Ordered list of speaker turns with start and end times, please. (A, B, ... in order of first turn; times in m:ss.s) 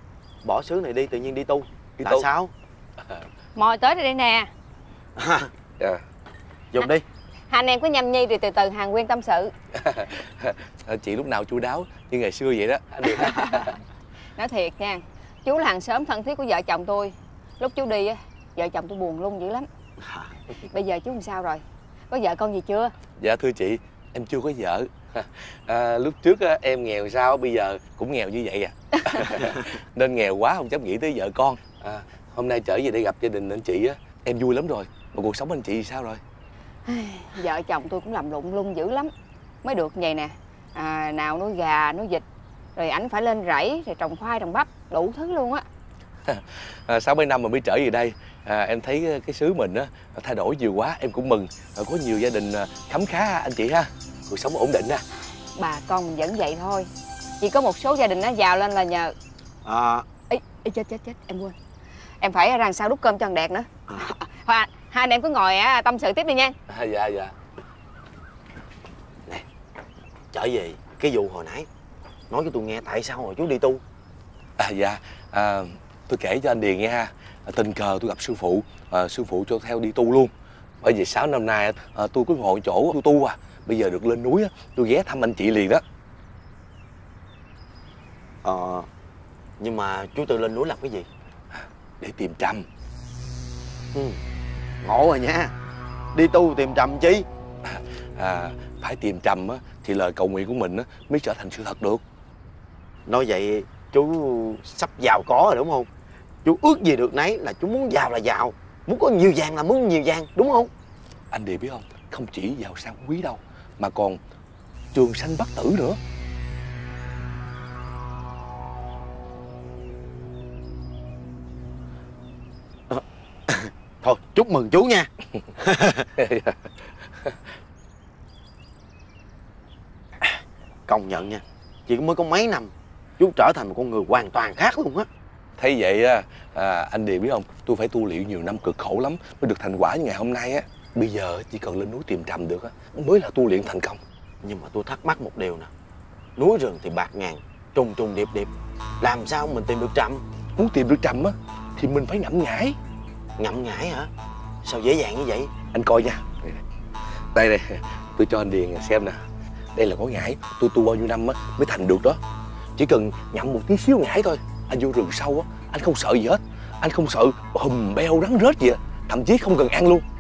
0:00.4-0:02.5 A
0:02.0-0:02.3 B
0:03.6-0:04.5 C
0:05.2-0:05.5 A
0:06.7-0:07.0 A
0:07.5-0:09.5 C
0:09.7-0:13.8 B
0:14.4-0:19.7 C
0:20.7-0:22.9 C
0:23.2-0:36.2 B
0:36.8-0:39.1 C
0:39.6-0:42.2 C
0:42.8-0:45.6 C
0:46.3-0:55.0 B
0:55.6-0:56.9 C
0:57.4-0:59.1 C
0:59.6-1:00.0 A
1:00.3-1:01.5 C
1:02.2-1:06.5 C
1:06.7-1:07.3 B
1:10.3-1:11.7 A
1:12.3-1:13.8 A
1:14.6-1:25.8 B
1:28.4-1:28.9 A
1:29.6-1:31.1 A
1:31.6-1:32.6 B
1:33.9-1:34.2 A
1:34.8-1:35.5 A
1:36.1-1:37.2 A
1:37.7-1:42.0 B
1:43.1-1:45.9 A
1:46.4-1:50.7 A
1:51.3-1:54.2 B
1:54.9-1:56.0 B
2:02.9-2:05.1 A
2:05.8-2:06.0 A
2:06.2-2:07.5 B
2:10.9-2:15.1 A
2:15.6-2:24.0 B
2:24.4-2:25.7 A
2:26.4-2:28.5 A
2:29.0-2:30.2 A
2:30.6-2:32.8 B
2:33.4-2:34.1 A
2:34.6-2:35.6 A
2:35.6-2:36.6 B
2:37.3-2:39.2 B
2:39.7-2:42.2 B
2:42.8-2:50.0 B